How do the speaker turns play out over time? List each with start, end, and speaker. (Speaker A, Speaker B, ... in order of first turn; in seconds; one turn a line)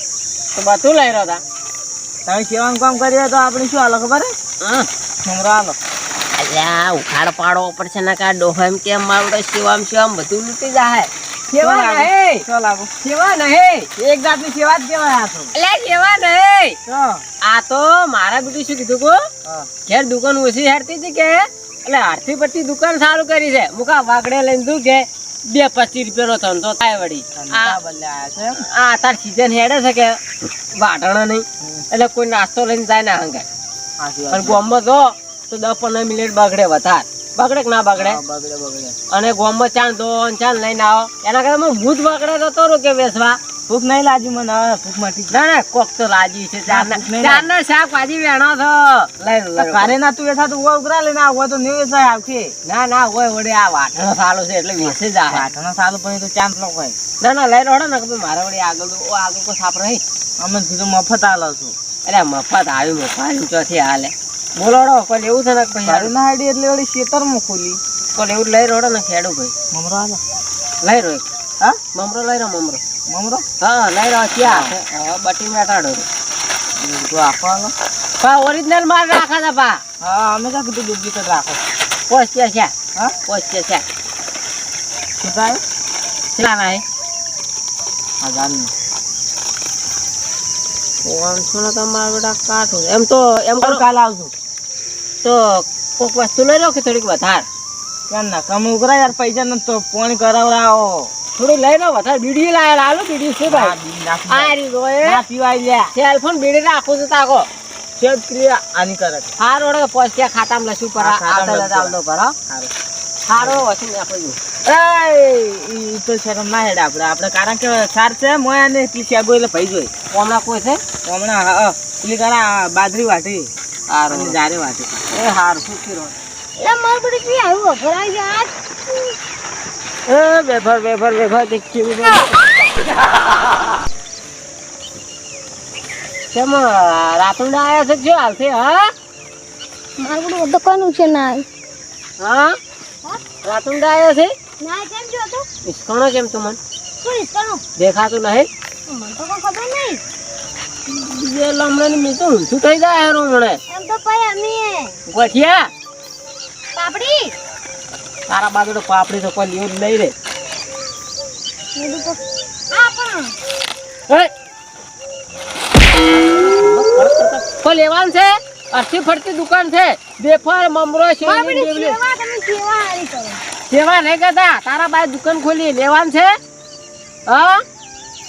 Speaker A: 0.5-1.4
Speaker B: 2.2-4.3
Speaker A: 4.6-4.9
Speaker B: 5.2-5.8
Speaker A: 6.4-12.4
Speaker B: 11.6-12.9
Speaker A: 13.0-13.9
Speaker B: 14.0-15.5
Speaker A: 15.5-16.8
Speaker B: 16.9-17.2
Speaker A: 17.4-19.2
Speaker A: 19.9-27.8
Speaker B: 27.4-28.6
Speaker A: 28.6-30.2
Speaker A: 30.7-33.4
Speaker B: 34.0-34.6
Speaker A: 34.3-38.2
Speaker B: 37.9-39.0
Speaker A: 39.1-43.4
Speaker B: 43.7-45.4
Speaker A: 45.3-49.9
Speaker B: 46.7-47.5
Speaker B: 49.6-52.5
Speaker A: 52.6-55.5
Speaker B: 54.8-57.0
Speaker A: 57.2-60.0
Speaker B: 60.4-61.7
Speaker A: 62.0-66.1
Speaker B: 65.8-67.8
Speaker A: 68.2-69.5
Speaker B: 69.7-70.2
Speaker A: 70.8-71.2
Speaker A: 71.9-72.8
Speaker B: 73.1-73.4
Speaker A: 73.6-76.1
Speaker B: 74.4-74.7
Speaker B: 76.8-77.7
Speaker A: 78.2-79.8
Speaker B: 80.0-81.6
Speaker A: 82.1-82.7
Speaker A: 83.3-83.8
Speaker B: 85.2-85.6
Speaker A: 86.3-86.8
Speaker B: 88.2-88.7
Speaker A: 91.0-93.8
Speaker B: 93.6-94.3
Speaker A: 95.2-97.5
Speaker B: 98.1-101.1
Speaker A: 101.3-103.7
Speaker B: 103.5-105.9
Speaker A: 104.3-105.2
Speaker A: 105.9-107.5
Speaker B: 108.0-109.3
Speaker A: 109.4-112.3
Speaker B: 111.0-112.0
Speaker A: 113.3-114.4
Speaker B: 113.4-113.6
Speaker B: 114.6-119.9
Speaker A: 120.1-120.8
Speaker B: 121.0-123.5
Speaker A: 123.9-124.3
Speaker B: 124.1-125.0
Speaker A: 125.1-126.1
Speaker C: 126.6-128.5
Speaker A: 130.1-132.4
Speaker A: 136.3-138.9
Speaker C: 140.0-141.5
Speaker A: 142.2-142.6
Speaker A: 143.4-144.3
Speaker C: 144.6-145.5
Speaker A: 145.6-146.6
Speaker C: 147.0-147.6
Speaker A: 147.8-148.5
Speaker C: 148.9-150.0
Speaker A: 150.9-153.6
Speaker C: 153.7-155.0
Speaker A: 155.1-155.7
Speaker C: 156.7-157.3
Speaker A: 158.3-160.1
Speaker C: 161.7-163.3
Speaker A: 166.0-172.0
Speaker C: 171.2-173.4
Speaker A: 173.7-176.3
Speaker A: 177.3-177.6